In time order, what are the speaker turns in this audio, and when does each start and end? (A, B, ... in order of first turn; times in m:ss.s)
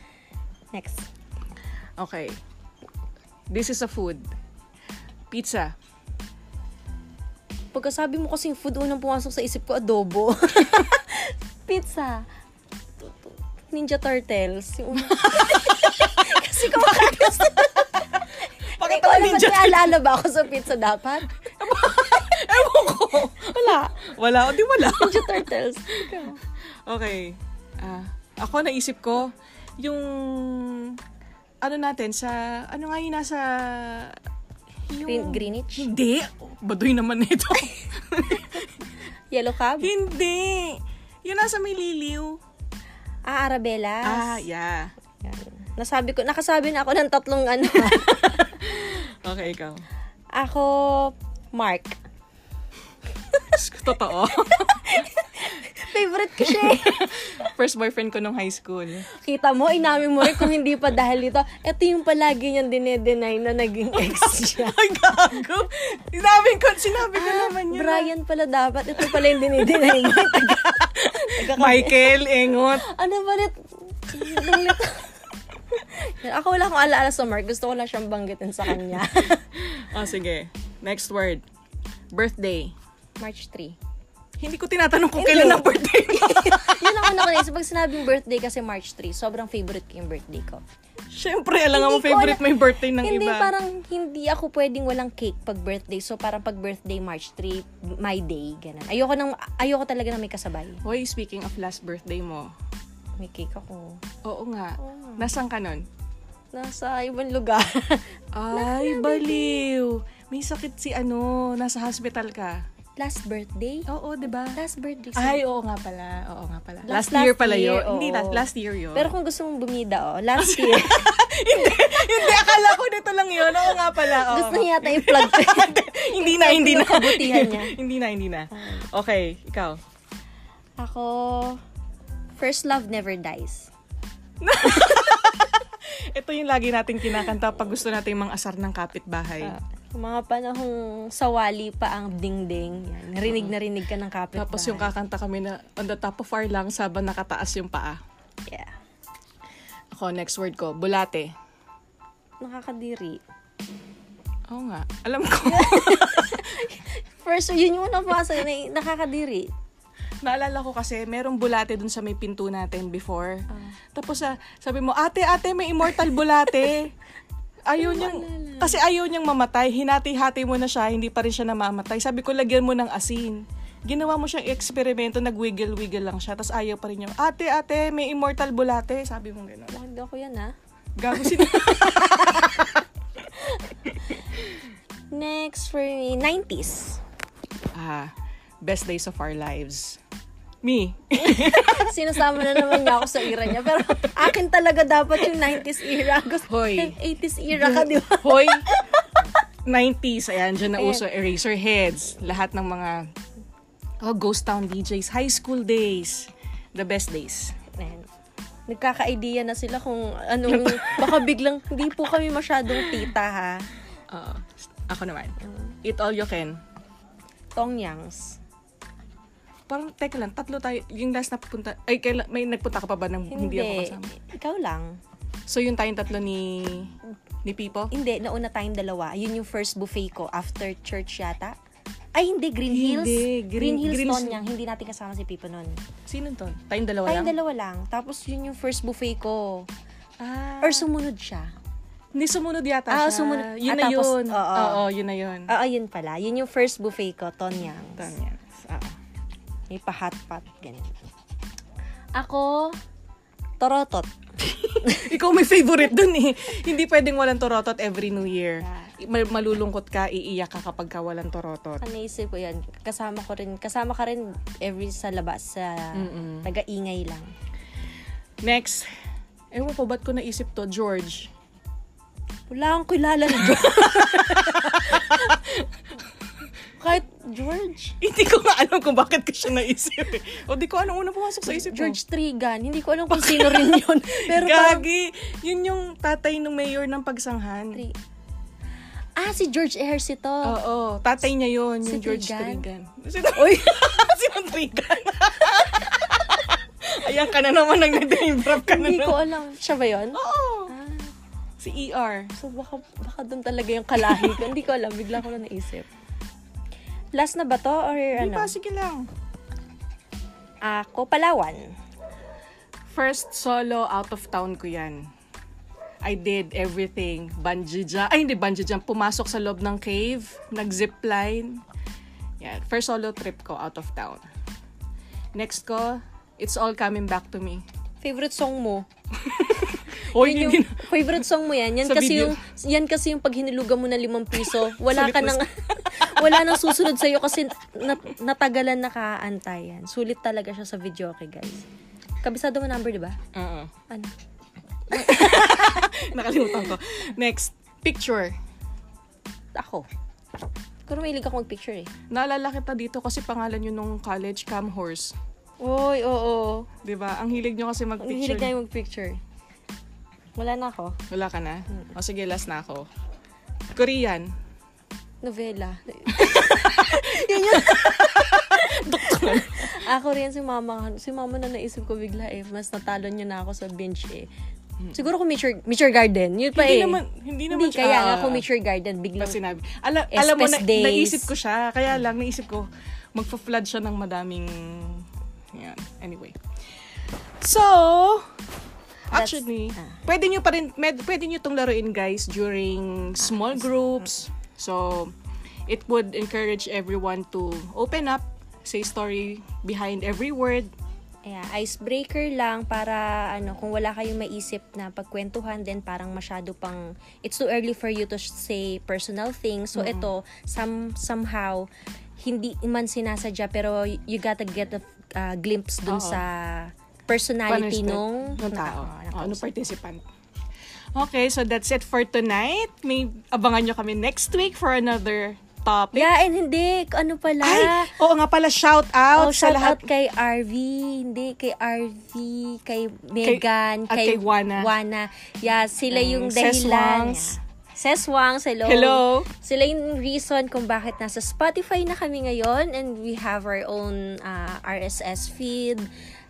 0:00.7-0:01.1 A
0:02.0-0:02.4 B
0:03.5-0:04.2 B
0:05.3-0:05.7 B
0:07.7-0:12.2 A
0:13.0-0:21.3 A
0:16.6-0:17.3 B
0:18.8-0:20.0 B
0:21.4-0:25.5 B
0:24.8-0:26.4 A
0:26.0-0:26.3 B
0:26.8-0:31.0 B
0:31.6-0:34.2 B
0:34.9-0:38.7 B
0:35.0-0:35.9 A
0:39.3-0:39.9 A
0:39.8-0:42.4 B
0:43.2-0:44.4 A
0:44.0-0:44.9 B
0:45.2-0:48.7 A
0:48.7-0:49.8 B
0:50.3-0:52.0 A
0:53.5-0:54.9 B
0:54.6-0:57.2 A
0:56.4-0:59.1 B
0:59.2-1:05.4 A
1:04.7-1:08.1 B
1:07.1-1:12.2 A
1:09.0-1:12.9 B
1:12.7-1:19.5 A
1:19.5-1:21.4 B
1:22.1-1:22.7 B
1:23.2-1:23.8 A
1:24.4-1:27.4 B
1:25.2-1:30.6 A
1:31.1-1:33.5 B
1:31.7-1:40.8 A
1:40.8-1:42.5 B
1:43.2-1:44.0 A
1:44.2-1:45.8 B
1:44.8-1:45.3 A
1:46.5-1:49.6 A
1:48.3-1:52.6 B
1:53.0-1:53.9 A
1:53.9-1:54.6 B
1:54.5-1:55.4 A
1:55.2-1:59.1 B
1:56.8-2:01.1 A
2:00.4-2:09.8 B
2:01.7-2:02.3 A
2:03.9-2:07.8 A
2:08.5-2:08.8 A
2:10.8-2:11.6 A
2:12.4-2:13.7 A
2:14.4-2:19.5 B
2:19.4-2:24.9 A
2:23.3-2:23.5 B
2:24.4-2:28.0 B
2:28.5-2:28.7 A
2:29.9-2:31.3 B
2:32.4-2:33.2 A
2:34.5-2:36.5 B
2:35.4-2:39.5 A
2:40.2-2:46.9 B
2:47.7-2:59.7 B
2:47.8-2:48.8 A
2:59.7-3:00.5 A
3:01.0-3:02.6 B
3:01.2-3:02.7 A
3:03.3-3:04.1 A
3:05.1-3:07.0 A
3:07.7-3:10.0 B
3:10.6-3:14.3 B
3:11.2-3:19.2 A
3:16.5-3:17.0 B
3:17.5-3:18.7 B
3:19.6-3:23.1 B
3:20.8-3:21.1 A
3:24.0-3:27.5 B
3:27.8-3:28.1 A
3:28.7-3:33.6 A
3:30.5-3:31.3 B
3:34.1-3:36.6 B
3:37.6-3:38.4 A
3:39.7-3:44.1 B
3:43.3-3:45.0 A
3:45.5-3:47.9 B
3:47.9-3:51.6 A
3:52.1-3:55.8 A
3:52.7-3:54.4 B
3:56.1-3:57.3 B
3:57.0-3:59.7 A
4:00.2-4:00.9 B
4:00.6-4:01.5 A
4:02.1-4:05.5 B
4:02.9-4:04.8 A
4:05.5-4:08.1 A
4:08.0-4:08.9 B
4:09.7-4:11.0 A
4:12.1-4:12.7 A
4:13.6-4:14.1 A
4:14.4-4:21.8 B
4:14.8-4:15.1 A
4:18.6-4:18.9 A
4:21.8-4:27.3 A
4:25.9-4:26.5 B
4:28.4-4:28.9 B
4:29.5-4:31.3 B
4:32.5-4:35.4 A
4:33.5-4:35.6 B
4:36.8-4:38.0 A
4:38.0-4:42.0 B
4:41.4-4:44.8 A
4:43.1-4:47.8 B
4:49.2-4:50.6 A
4:50.4-4:59.2 B
4:51.8-4:52.6 A
4:53.3-4:53.9 A
4:58.5-5:01.1 A
5:00.1-5:00.7 B
5:01.6-5:02.3 B
5:02.4-5:05.9 A
5:07.1-5:08.5 A
5:08.1-5:09.1 B
5:10.6-5:11.7 A
5:12.9-5:15.0 B
5:16.0-5:21.6 B
5:22.4-5:24.2 B
5:25.3-5:27.6 B
5:28.0-5:28.9 A
5:29.2-5:31.2 B
5:30.1-5:41.6 A
5:31.8-5:32.4 B
5:34.4-5:36.9 B
5:42.2-5:43.2 A
5:43.3-5:43.7 B
5:44.9-5:48.3 B
5:44.9-5:45.6 A
5:49.5-5:49.8 A
5:50.9-5:51.9 A
5:52.1-5:55.1 B
5:55.6-5:56.7 A
5:56.8-5:58.5 B
5:58.0-5:59.2 A
6:00.4-6:01.0 A
6:01.1-6:02.9 B
6:03.7-6:04.3 B
6:05.2-6:14.3 A
6:06.1-6:09.8 B
6:14.9-6:19.4 A
6:16.5-6:18.4 B
6:19.2-6:26.4 B
6:20.1-6:21.3 A
6:27.4-6:28.3 B
6:29.1-6:35.1 B
6:29.1-6:30.0 A
6:33.2-6:33.6 A
6:35.7-6:40.7 B
6:41.2-6:51.7 A
6:49.7-6:50.1 B
6:52.2-6:59.4 A
6:55.9-6:56.2 B
6:57.5-7:00.0 B
7:00.9-7:06.1 B
7:05.9-7:07.9 A
7:07.4-7:09.8 B
7:09.1-7:25.9 A
7:13.2-7:14.7 B
7:15.9-7:17.4 B
7:18.6-7:19.3 B